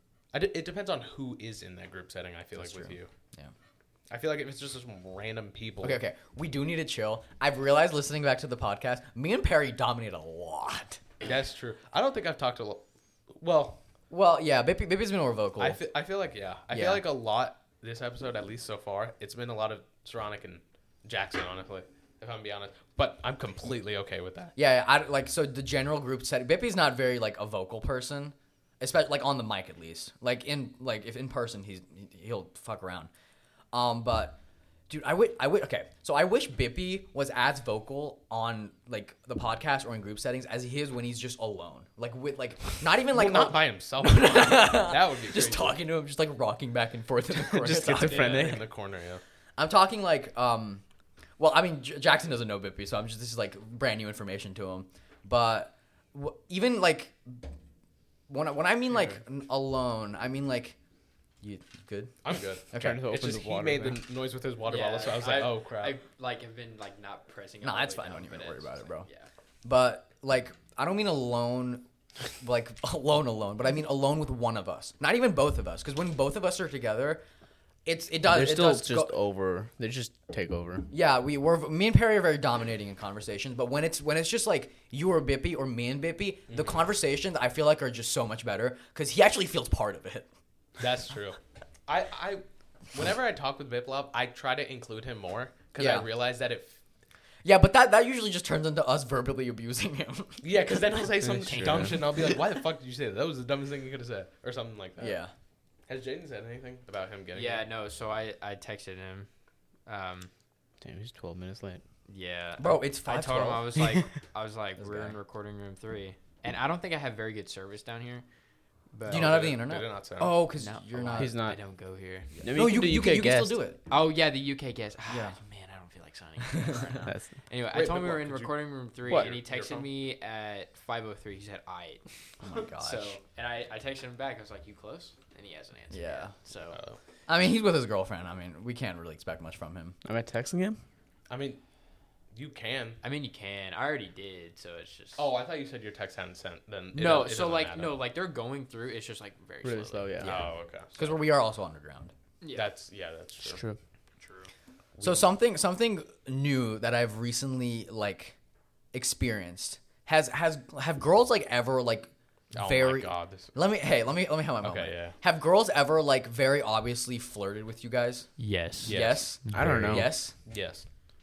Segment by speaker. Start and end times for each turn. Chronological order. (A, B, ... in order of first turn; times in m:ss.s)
0:00.3-0:03.1 A
0:02.6-0:03.5 B
0:04.1-0:06.0 A
0:05.8-0:11.0 B
0:11.2-0:12.8 A
0:13.4-0:13.8 A
0:14.1-0:15.8 B
0:15.6-0:24.6 A
0:16.7-0:17.0 B
0:24.6-0:33.1 B
0:33.7-0:34.4 B
0:34.9-0:48.6 B
0:43.1-0:45.8 A
0:47.5-0:48.6 C
0:47.7-0:49.2 A
0:49.6-0:50.8 B
0:51.4-0:57.5 B
0:58.3-1:00.8 B
1:01.4-1:02.2 B
1:02.2-1:06.0 A
1:02.7-1:03.0 B
1:02.7-1:04.0 C
1:04.6-1:09.3 D
1:07.6-1:09.1 B
1:09.6-1:11.8 B
1:12.4-1:17.2 B
1:17.8-1:19.1 B
1:18.2-1:20.9 C
1:20.9-1:30.3 B
1:26.5-1:26.8 A
1:30.8-1:36.8 A
1:35.8-1:36.1 B
1:37.4-1:40.5 B
1:40.4-1:45.2 A
1:41.4-1:41.9 C
1:41.5-1:42.1 D
1:45.0-1:45.3 B
1:45.9-1:47.7 A
1:47.4-1:49.3 D
1:49.9-1:50.3 D
1:50.8-1:51.8 C
1:52.1-1:58.2 D
1:52.6-1:53.9 B
1:54.8-1:55.2 B
1:58.9-1:59.4 D
1:59.1-2:00.4 A
1:59.1-2:01.4 B
2:00.6-2:02.4 D
2:01.2-2:01.6 C
2:02.4-2:03.8 B
2:02.4-2:03.6 C
2:03.9-2:16.8 D
2:05.1-2:05.4 B
2:06.6-2:07.0 B
2:07.0-2:07.3 C
2:07.7-2:09.9 A
2:09.1-2:09.3 C
2:12.4-2:13.2 B
2:15.9-2:16.3 B
2:16.7-2:17.0 A
2:17.3-2:20.0 B
2:20.0-2:20.8 C
2:21.3-2:21.6 A
2:22.3-2:23.0 A
2:23.0-2:25.3 D
2:25.2-2:28.0 A
2:26.9-2:30.4 D
2:29.6-2:30.4 C
2:30.2-2:31.2 A
2:30.2-2:32.1 B
2:32.4-2:32.7 D
2:32.5-2:33.6 A
2:33.4-2:33.8 C
2:34.2-2:34.5 D
2:35.0-2:35.3 A
2:35.0-2:38.4 B
2:38.9-2:50.4 B
2:42.5-2:43.5 A
2:44.6-2:45.2 A
2:48.4-2:50.0 D
2:48.8-2:49.3 A
2:49.5-2:50.1 C
2:50.5-2:50.9 A